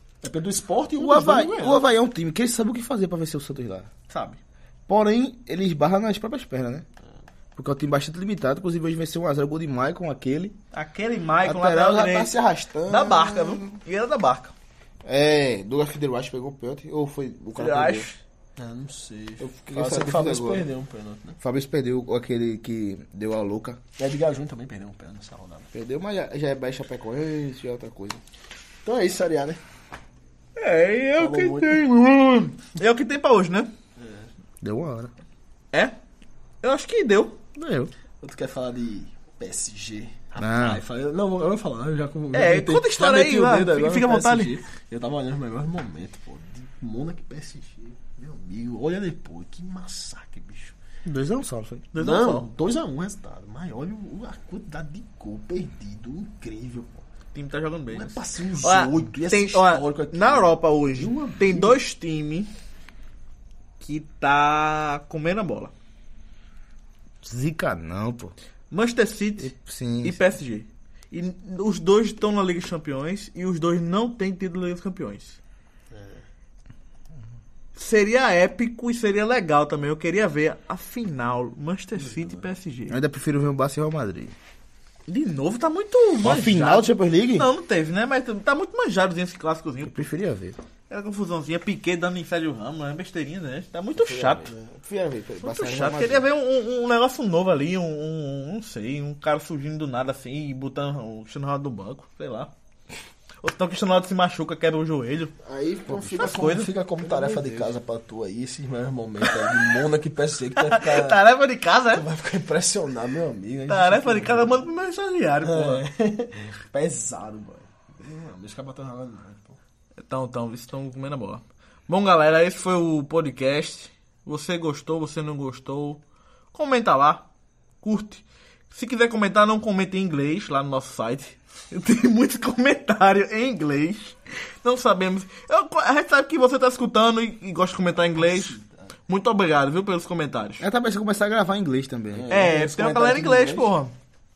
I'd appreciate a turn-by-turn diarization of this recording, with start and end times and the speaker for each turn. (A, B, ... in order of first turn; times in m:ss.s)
0:00.2-0:01.8 A
0:01.0-0:03.9 B
0:04.1-0:04.4 C
0:04.9-0:06.8 B
0:07.6-0:10.6 B
0:10.7-0:12.3 C
0:11.4-0:13.8 B
0:12.9-0:14.5 C
0:15.0-0:18.1 B
0:17.6-0:18.2 C
0:18.6-0:21.4 A
0:19.4-0:20.7 B
0:21.4-0:23.8 B
0:24.0-0:25.7 A
0:25.7-0:28.2 B
0:28.8-0:29.6 A
0:30.6-0:33.7 C
0:31.2-0:31.8 A
0:34.0-0:34.3 A
0:34.6-0:35.1 B
0:36.6-0:37.4 C
0:37.6-0:37.9 B
0:38.2-0:50.8 A
0:40.4-0:40.8 B
0:42.3-0:44.6 C
0:51.1-0:51.9 B
0:51.9-0:52.5 C
0:52.0-0:57.0 A
0:57.3-1:02.5 C
0:57.9-1:01.8 A
1:03.8-1:05.7 C
1:07.2-1:08.4 B
1:08.7-1:15.4 C
1:09.4-1:10.2 B
1:15.9-1:16.2 A
1:17.8-1:23.0 C
1:22.0-1:22.5 A
1:22.9-1:24.4 B
1:25.1-1:30.1 C
1:26.2-1:27.5 B
1:29.8-1:30.6 B
1:30.9-1:34.5 C
1:34.0-1:36.3 B
1:35.4-1:42.5 C
1:43.4-1:45.3 C
1:45.4-1:51.2 A
1:45.9-1:46.2 B
1:46.2-1:46.7 C
1:47.0-1:47.7 B
1:50.6-1:52.0 C
1:51.9-1:54.7 A
1:53.7-1:55.8 C
1:55.4-1:59.6 A
2:00.0-2:06.0 C
2:06.5-2:07.3 C
2:07.8-2:18.6 C
2:18.2-2:18.9 A
2:19.1-2:20.6 C
2:20.6-2:22.3 B
2:22.1-2:23.7 A
2:22.3-2:23.9 C